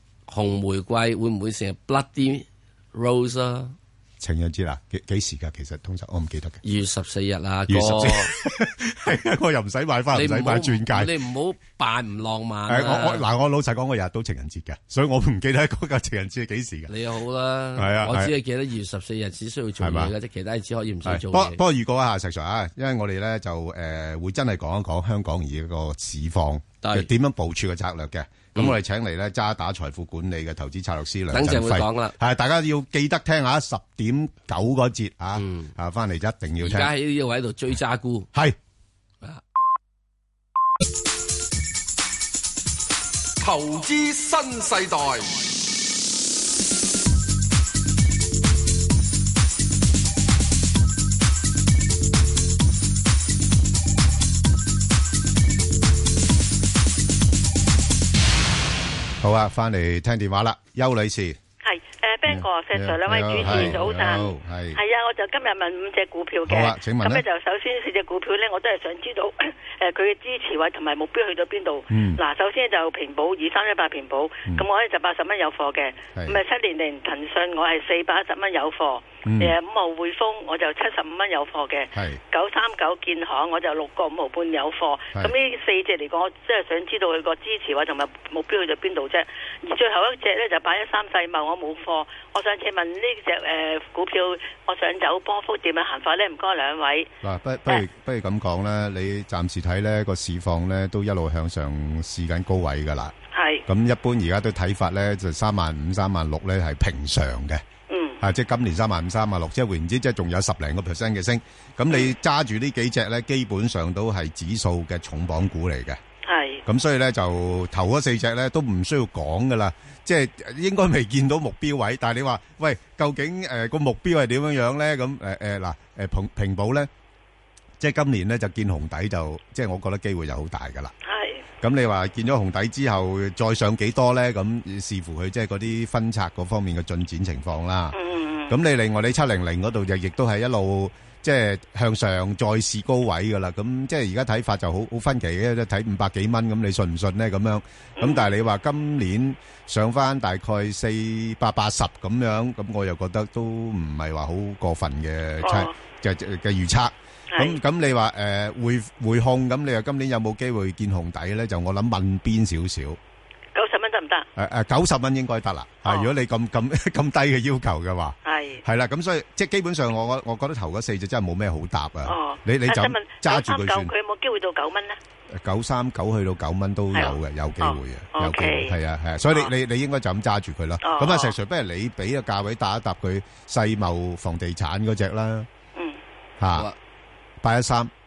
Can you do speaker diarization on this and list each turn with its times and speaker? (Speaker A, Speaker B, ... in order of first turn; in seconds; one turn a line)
Speaker A: 0.3-3.7
Speaker B: 4.2-6.6
Speaker A: 6.6-8.3
Speaker B: 7.7-11.1
Speaker A: 10.1-13.2
Speaker B: 12.7-16.9
Speaker A: 16.9-21.6
Speaker B: 17.8-18.3
Speaker B: 19.8-20.1
Speaker B: 21.0-36.9
Speaker A: 26.8-27.1
Speaker A: 31.3-32.1
Speaker A: 35.4-35.7
Speaker A: 36.6-38.3
Speaker C: 43.4-45.4
Speaker B: 59.2-61.4
Speaker D: 61.6-97.1
Speaker B: 62.3-64.8
Speaker B: 66.5-67.2
Speaker B: 71.9-72.2
Speaker B: 79.2-79.5
Speaker B: 81.9-82.2
Speaker B: 97.2-103.1
Speaker D: 103.3-103.6
Speaker B: 103.7-107.6
Speaker D: 107.9-108.2
Speaker B: 108.2-116.0
Speaker D: 116.2-116.6
Speaker B: 116.7-126.9
Speaker B: 127.8-130.9
Speaker D: 131.1-131.4
Speaker B: 131.6-137.9
Speaker D: 137.9-138.6
Speaker B: 138.5-163.0
Speaker D: 148.0-148.3
Speaker D: 155.4-155.7
Speaker D: 157.3-157.6
Speaker D: 163.5-164.3
Speaker B: 164.3-173.9
Speaker D: 165.8-166.1
Speaker D: 168.2-168.6
Speaker D: 172.1-175.0
Speaker B: 175.3-185.5
Speaker D: 176.9-178.7
Speaker D: 180.8-181.3
Speaker B: 186.4-186.7
Speaker B: 187.4-187.9